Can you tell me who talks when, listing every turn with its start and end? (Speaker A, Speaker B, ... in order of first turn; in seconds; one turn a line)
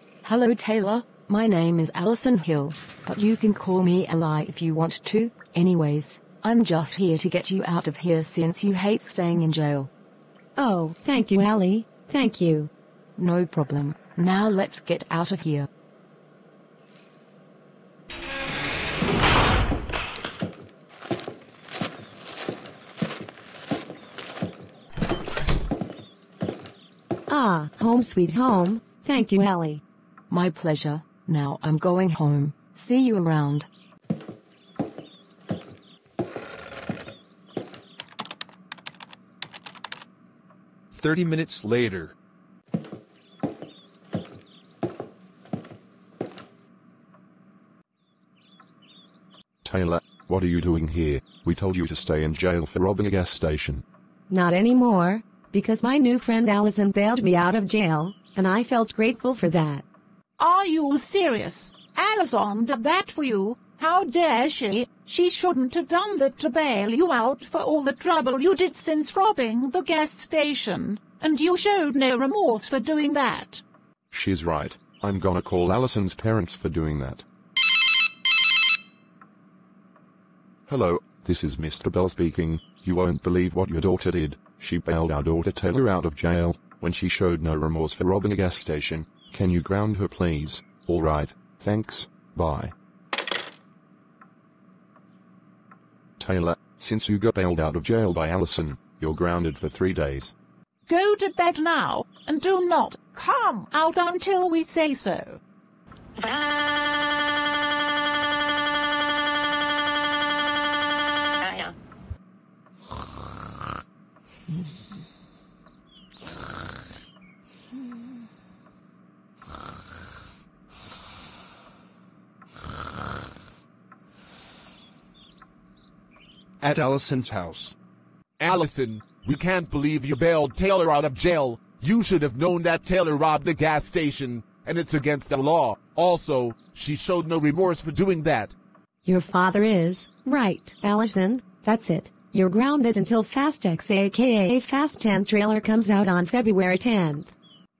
Speaker A: 0.2-9.9
Speaker B: 10.6-12.7
Speaker A: 13.2-15.7
Speaker B: 27.3-29.8
Speaker A: 30.3-33.7
Speaker C: 40.9-42.1
Speaker D: 49.6-53.8
Speaker B: 54.3-59.8
Speaker E: 60.4-73.6
Speaker D: 74.1-77.2
Speaker D: 80.7-92.7
Speaker D: 96.2-100.3
Speaker E: 100.9-105.4
Speaker C: 126.6-127.7
Speaker F: 128.4-138.5
Speaker B: 139.0-147.3